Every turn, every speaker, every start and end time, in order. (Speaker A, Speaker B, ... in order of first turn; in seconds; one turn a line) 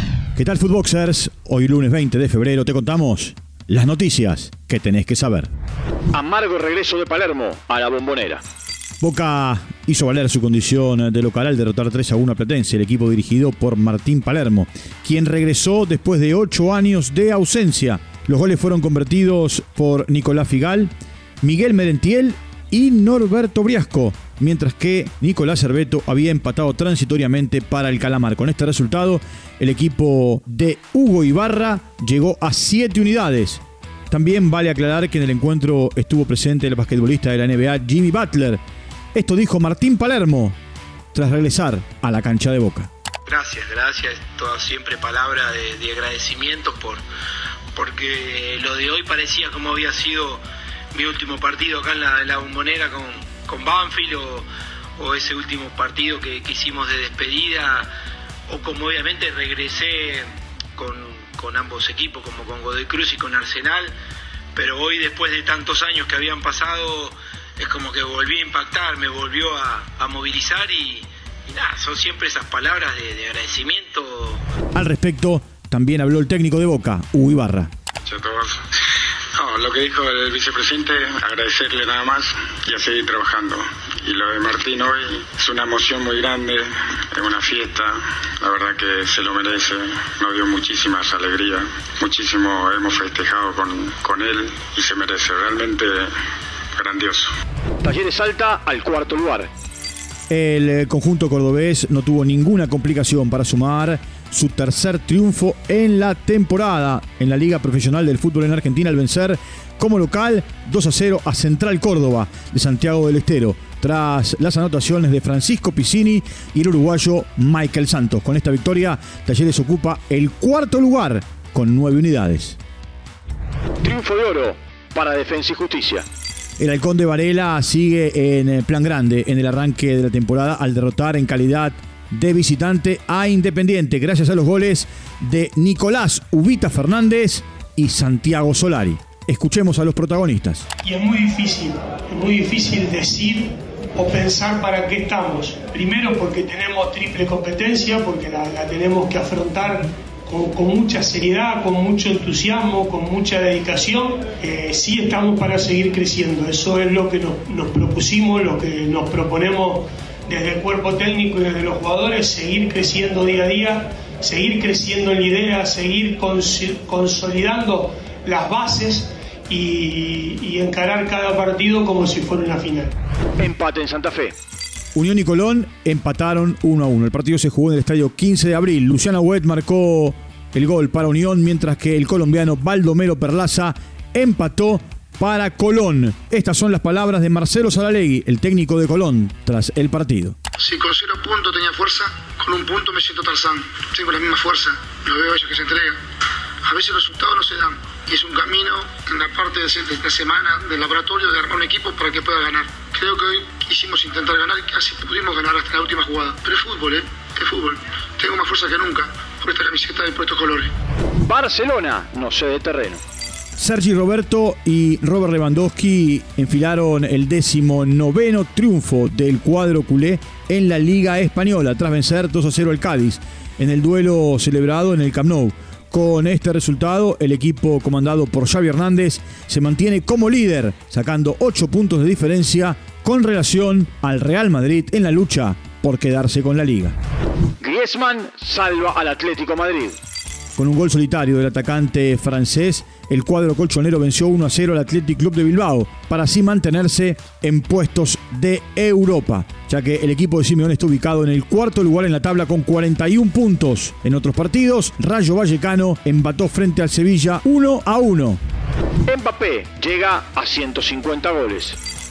Speaker A: 0.4-5.5
Speaker B: 6.1-8.4
Speaker A: 9.0-38.6
Speaker A: 39.1-40.6
Speaker A: 41.1-42.9
Speaker C: 43.3-47.0
Speaker C: 47.8-50.4
Speaker C: 50.9-54.5
Speaker C: 55.0-57.9
Speaker C: 58.5-60.2
Speaker C: 60.8-63.9
Speaker C: 64.6-74.4
Speaker A: 74.8-77.7
Speaker D: 78.1-78.6
Speaker D: 79.4-96.1
Speaker D: 96.8-97.3
Speaker B: 97.8-99.5
Speaker A: 100.3-122.6
Speaker B: 123.8-126.1
Speaker A: 126.6-140.7
Speaker E: 140.8-172.9
Speaker B: 173.4-174.3
Speaker A: 174.9-190.3
Speaker F: 190.6-196.0
Speaker F: 196.7-210.7
Speaker B: 211.2-213.0
Speaker A: 213.6-237.0
Speaker B: 237.6-240.0
Speaker A: 240.6-258.4
Speaker B: 259.1-261.8